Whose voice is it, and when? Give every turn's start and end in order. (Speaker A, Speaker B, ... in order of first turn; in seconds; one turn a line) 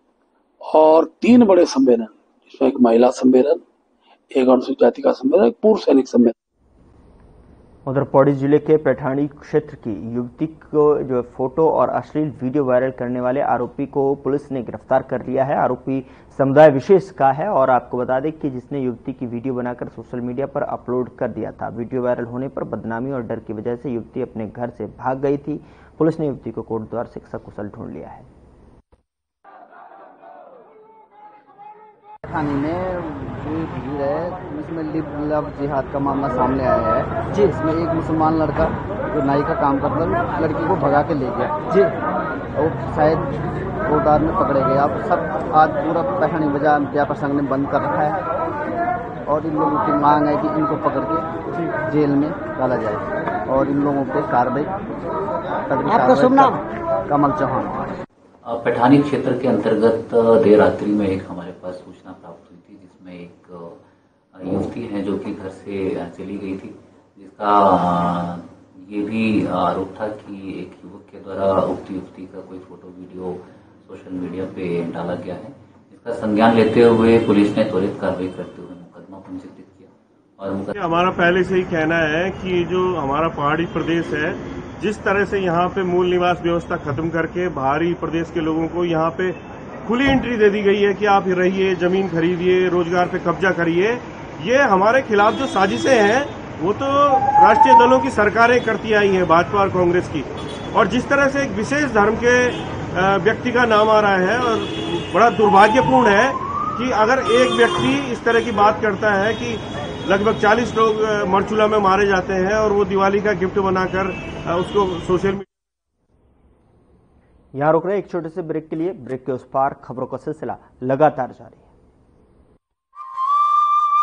Speaker A: 0.7-3.6
Speaker A: 4.3-6.3
Speaker B: 7.8-28.3
Speaker C: 32.2-41.9
Speaker C: 42.5-43.3
Speaker C: 43.9-48.2
Speaker C: 49.3-51.2
Speaker C: 51.8-54.7
Speaker C: 55.6-57.9
Speaker D: 58.4-63.8
Speaker D: 64.3-80.8
Speaker E: 80.7-115.5
Speaker B: 117.5-121.7